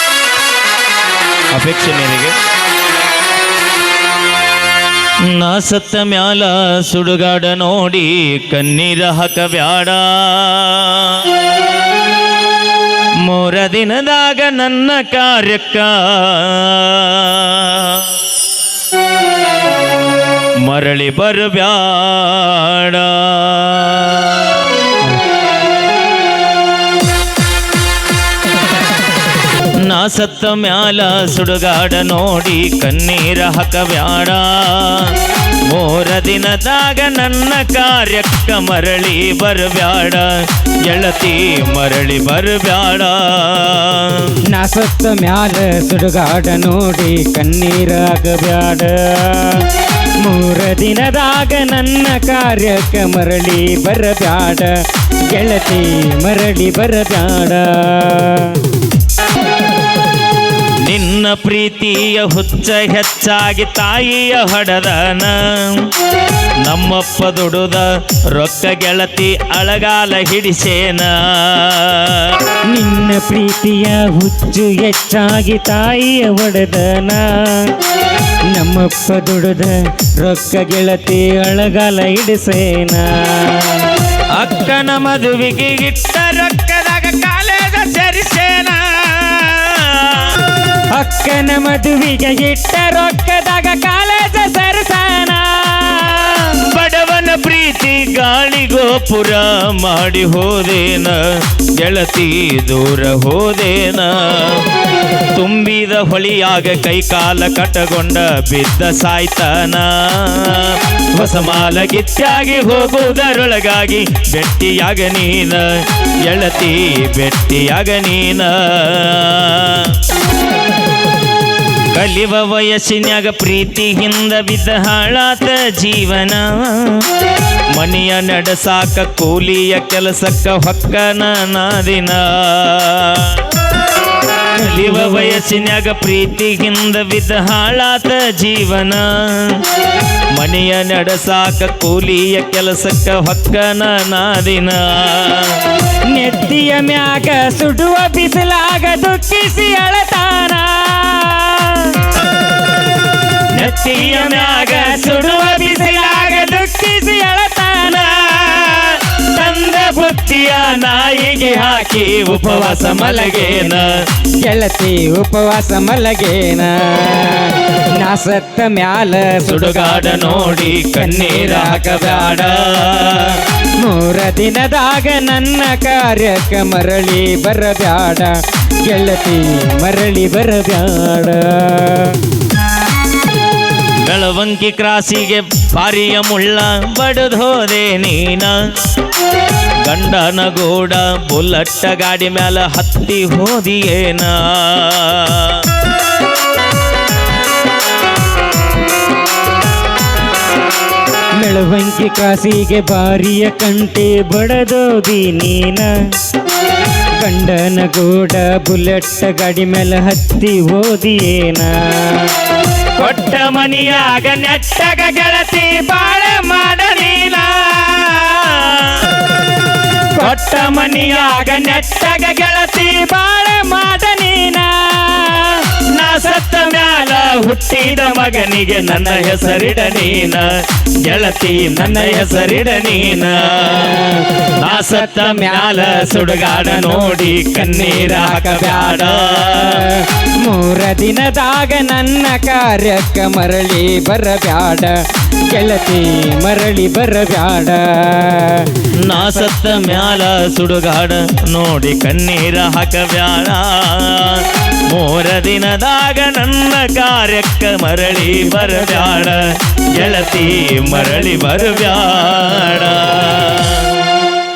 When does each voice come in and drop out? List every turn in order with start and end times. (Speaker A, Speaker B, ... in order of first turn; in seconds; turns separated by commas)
Speaker A: 1.5-2.4, Speaker A: 5.2-11.4, Speaker A: 13.2-18.1, Speaker A: 20.6-24.6, Speaker A: 29.7-44.3, Speaker B: 44.5-54.7, Speaker B: 55.3-58.6, Speaker A: 60.8-65.9, Speaker A: 66.7-72.4, Speaker B: 72.7-77.8, Speaker B: 78.5-84.0, Speaker A: 84.4-90.4, Speaker B: 90.9-96.5, Speaker A: 96.5-101.2, Speaker A: 101.8-104.7, Speaker A: 105.3-120.0, Speaker A: 121.9-127.1, Speaker A: 127.7-133.4, Speaker A: 134.6-139.7, Speaker B: 134.6-135.4, Speaker A: 140.3-145.7, Speaker B: 146.1-152.2, Speaker A: 153.5-156.2, Speaker B: 153.6-158.7, Speaker A: 158.3-164.0, Speaker B: 162.1-163.8, Speaker B: 164.4-178.3, Speaker A: 169.5-173.4, Speaker B: 178.9-182.2, Speaker A: 184.0-188.6, Speaker A: 189.9-195.7, Speaker B: 201.4-205.9, Speaker B: 207.2-212.5, Speaker A: 213.0-214.4, Speaker B: 213.0-218.8, Speaker B: 220.2-225.7, Speaker A: 220.2-221.5, Speaker A: 225.9-239.9, Speaker B: 229.3-230.0, Speaker B: 231.8-232.4, Speaker B: 233.7-245.0, Speaker B: 245.5-249.5, Speaker A: 249.0-263.9